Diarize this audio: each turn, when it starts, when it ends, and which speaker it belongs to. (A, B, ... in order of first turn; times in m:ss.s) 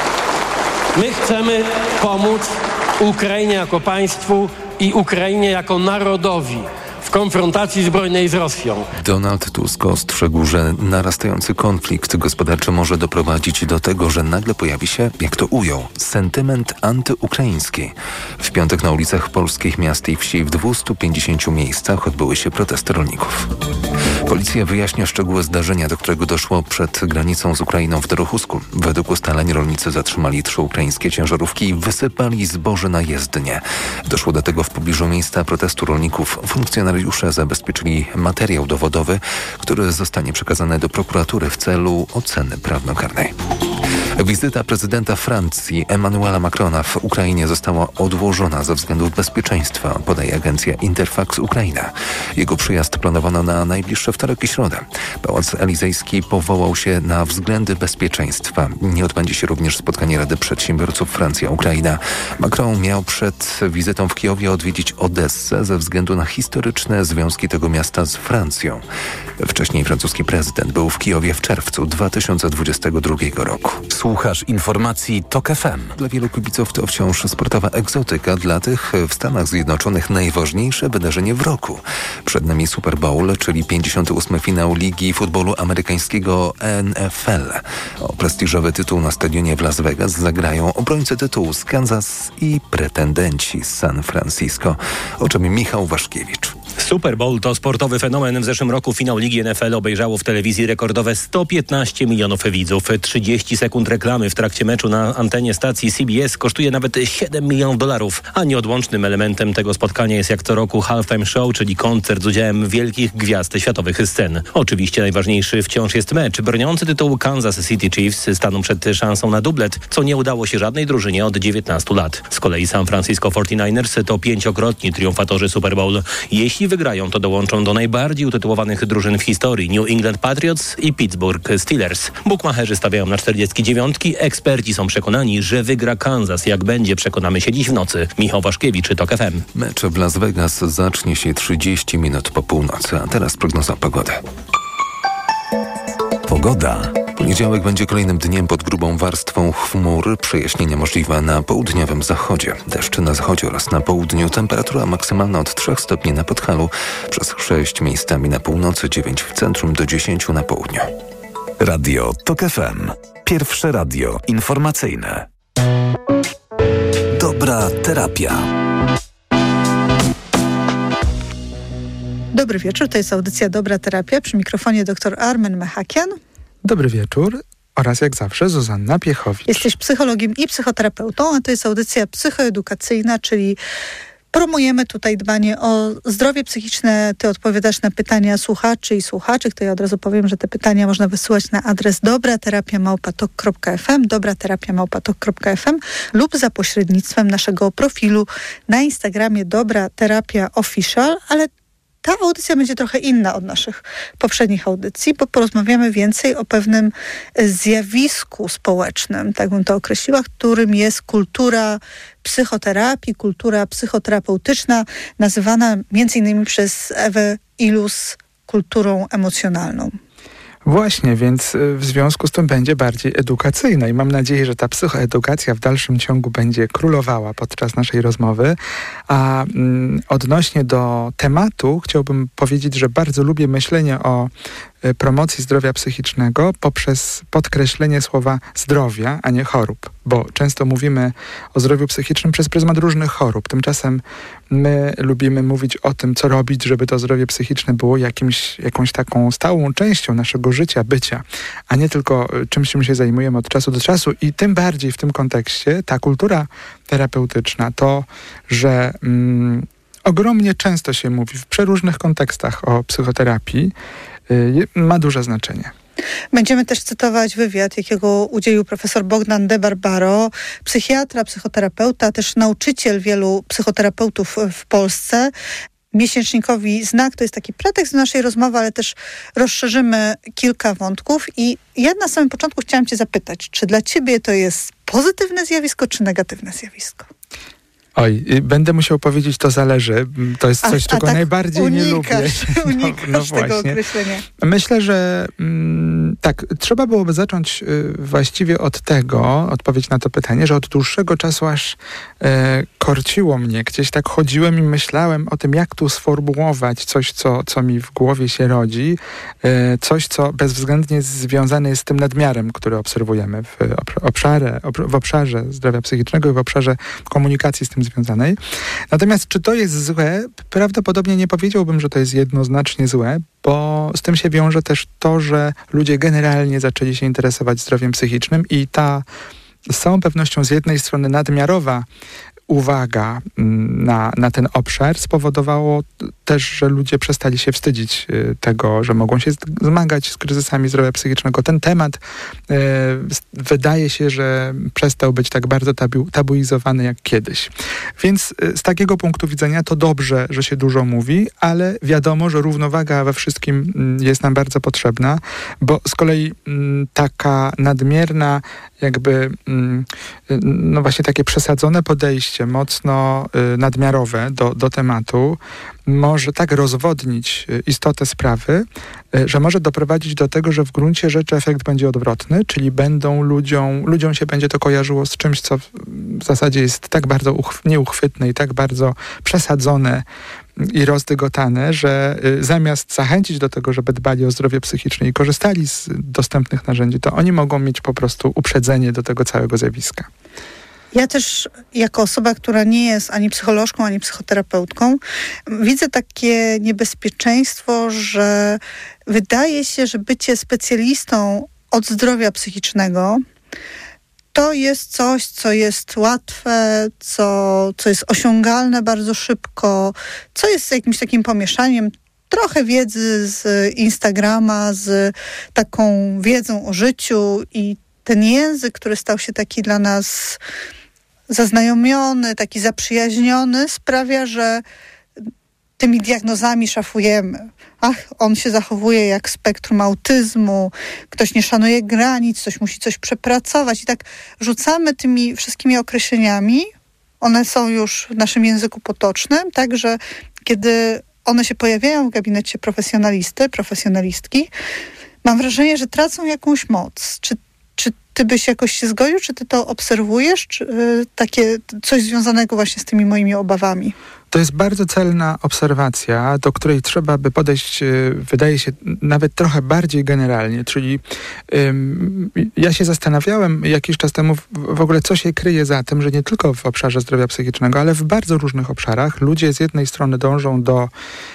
0:00.9-0:08.9 A
0:09.0-0:23.5 B
0:24.2-0:43.3 B
0:44.2-1:08.8 B
1:09.4-1:13.8 B
1:13.9-1:15.9 C
1:15.9-1:36.6 B
1:36.8-2:19.4 D
2:19.5-2:24.2 B
2:26.3-2:27.0 C
2:27.1-2:40.9 B
2:41.6-2:45.2 C
2:47.1-2:48.5 C
2:52.3-2:56.2 E
2:56.6-2:59.7 F
2:59.5-3:03.6 E
3:04.3-3:21.5 E
3:22.0-3:40.0 E
3:40.6-3:48.6 F
3:49.1-3:54.3 F
3:54.8-4:23.7 F
4:24.3-4:25.7 F
4:26.3-4:35.3 E
4:35.9-4:47.1 E
4:48.0-4:53.8 F
4:50.6-4:54.2 E
4:54.4-5:18.4 F
5:18.9-5:29.0 F
5:29.7-5:31.9 F
5:32.5-6:20.0 F
6:20.6-6:30.1 F
6:30.9-6:43.2 E
6:44.3-7:00.4 E
7:01.3-7:04.6 E
7:05.8-7:16.7 E
7:17.2-7:24.5 E
7:25.2-7:33.9 E
7:34.3-7:50.9 F